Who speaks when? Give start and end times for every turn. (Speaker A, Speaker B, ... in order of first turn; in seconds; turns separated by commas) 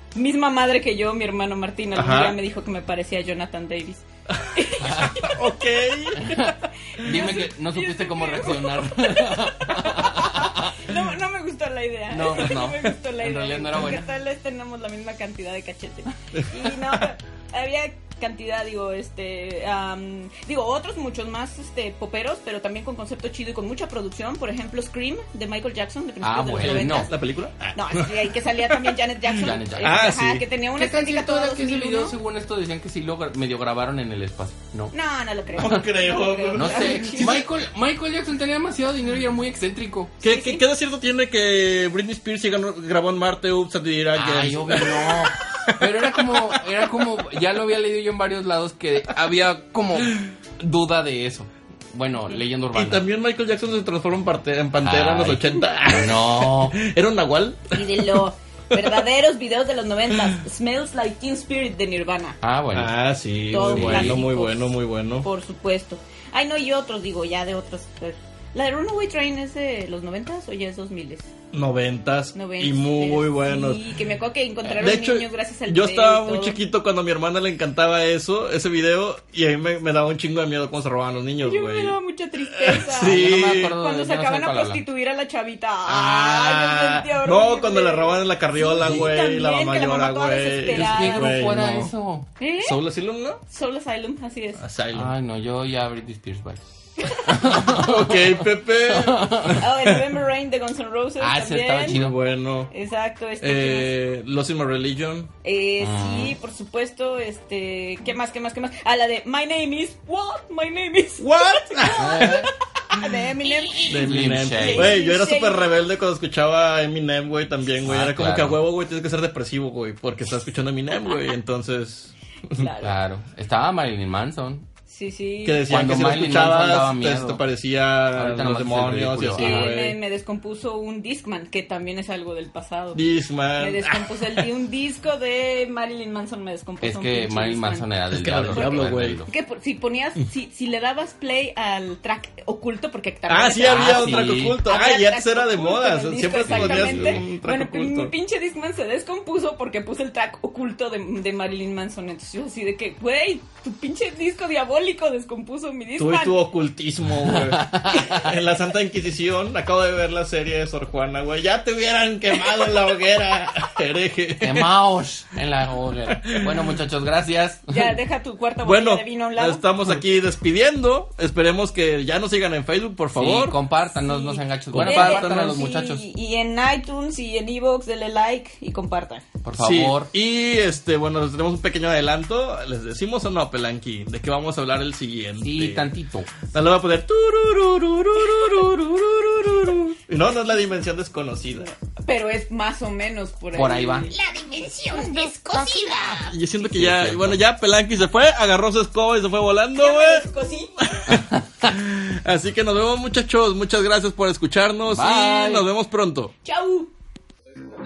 Speaker A: 0.1-5.3, Speaker B: 1.9-2.4, Speaker C: 4.9-5.2, Speaker B: 5.2-6.4, Speaker C: 6.2-10.7, Speaker A: 7.0-27.1, Speaker C: 12.1-14.0, Speaker C: 26.2-27.1, Speaker B: 26.6-28.9, Speaker A: 27.7-32.1, Speaker C: 29.4-30.2, Speaker B: 29.8-30.4, Speaker C: 30.7-34.9, Speaker A: 34.9-37.4, Speaker C: 35.6-35.8, Speaker B: 35.6-37.5, Speaker C: 36.5-40.1, Speaker B: 40.2-45.9, Speaker A: 40.2-40.6, Speaker C: 44.1-53.0, Speaker B: 52.7-57.7, Speaker C: 54.8-56.8, Speaker A: 57.7-62.4, Speaker C: 62.4-62.9, Speaker B: 62.7-65.3, Speaker A: 63.5-71.3, Speaker C: 63.5-64.2, Speaker B: 71.5-73.8, Speaker A: 72.3-76.6, Speaker B: 74.7-82.0, Speaker A: 81.4-91.6, Speaker B: 82.6-83.8, Speaker C: 82.9-84.8, Speaker B: 85.9-91.9, Speaker C: 88.8-89.1, Speaker C: 90.7-92.3, Speaker A: 92.4-92.8, Speaker B: 92.6-93.4, Speaker A: 93.5-94.6, Speaker B: 94.6-95.1, Speaker C: 94.9-99.6, Speaker B: 97.6-100.0, Speaker A: 99.6-102.0, Speaker C: 101.2-102.2, Speaker B: 101.8-102.7, Speaker A: 102.7-103.9, Speaker B: 103.4-105.3, Speaker A: 105.4-115.7, Speaker C: 105.8-106.3, Speaker B: 111.2-112.5, Speaker C: 112.0-112.5, Speaker B: 113.8-122.7, Speaker C: 113.8-115.0, Speaker C: 117.8-118.6, Speaker A: 122.5-122.9, Speaker C: 122.8-124.7, Speaker A: 124.9-125.7, Speaker B: 125.4-130.0, Speaker C: 125.7-127.4, Speaker C: 128.2-129.7, Speaker A: 129.4-133.0, Speaker B: 132.9-134.5, Speaker A: 133.6-137.9, Speaker C: 136.8-139.3, Speaker B: 138.1-139.2, Speaker A: 138.5-156.4, Speaker B: 143.3-148.1, Speaker C: 143.6-144.6, Speaker C: 146.4-147.2, Speaker B: 156.0-164.7, Speaker C: 157.2-158.2, Speaker C: 164.4-167.9, Speaker B: 166.3-166.6, Speaker A: 167.7-169.6, Speaker B: 168.6-173.6, Speaker C: 173.1-176.0, Speaker A: 174.0-179.2, Speaker B: 174.7-175.5, Speaker C: 179.4-180.1, Speaker B: 179.6-185.9, Speaker C: 185.4-186.3, Speaker B: 186.5-191.7, Speaker A: 191.6-196.3, Speaker C: 193.5-194.1, Speaker B: 196.3-200.3, Speaker C: 196.6-197.4, Speaker A: 199.8-200.7, Speaker B: 200.8-206.3, Speaker C: 201.1-201.7, Speaker C: 204.9-205.7, Speaker A: 206.4-206.9